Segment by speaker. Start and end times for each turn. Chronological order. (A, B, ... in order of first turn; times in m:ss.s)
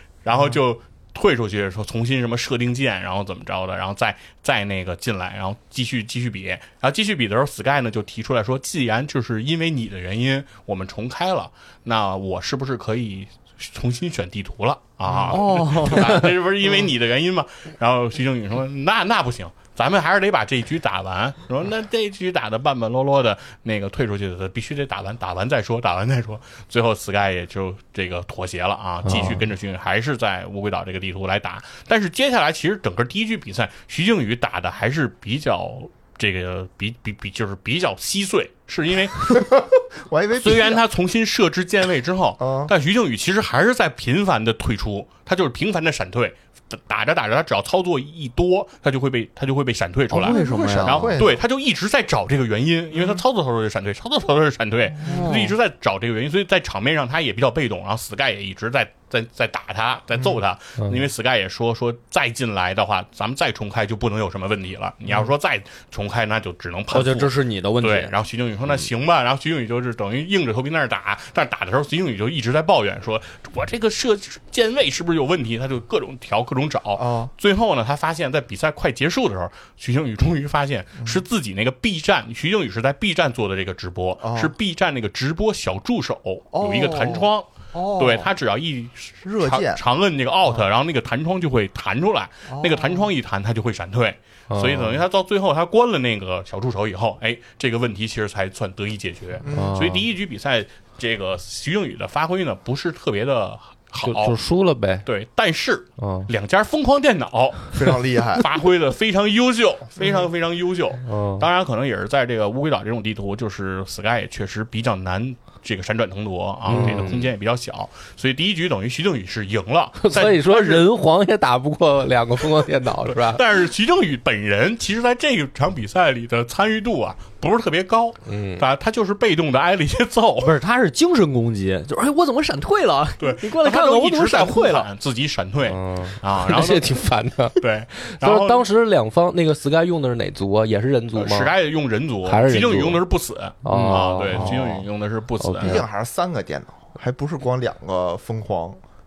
0:00.2-0:39.5 A
0:15.1-0:15.4 B
0:15.3-0:16.3 C
0:39.2-0:40.8 B
0:40.4-1:44.4 A
0:42.4-0:42.7 B
0:50.1-0:51.2 C
0:50.3-0:51.4 B
0:55.0-0:55.6 C
1:06.9-1:08.1 C
1:17.0-1:17.3 B
1:24.2-1:24.5 B
1:26.5-1:28.3 B
1:29.2-1:29.8 B
1:32.5-1:33.1 B
1:34.5-1:35.0 D
1:39.4-1:39.8 B
1:39.5-1:40.1 D
1:44.0-1:45.0 D
1:45.0-2:00.9 A
1:46.0-1:46.3 D
1:47.7-1:48.5 B
1:51.0-1:51.5 D
1:56.7-1:57.3 D
2:00.0-2:03.4 D
2:03.1-2:10.6 A
2:08.3-2:08.6 D
2:10.4-2:14.9 C
2:13.2-2:16.9 A
2:15.7-2:21.5 D
2:17.6-2:18.6 A
2:21.1-2:25.8 A
2:22.3-2:23.0 D
2:23.6-2:24.8 D
2:23.7-2:24.1 C
2:24.3-2:24.8 B
2:25.4-2:25.8 D
2:25.6-2:28.8 B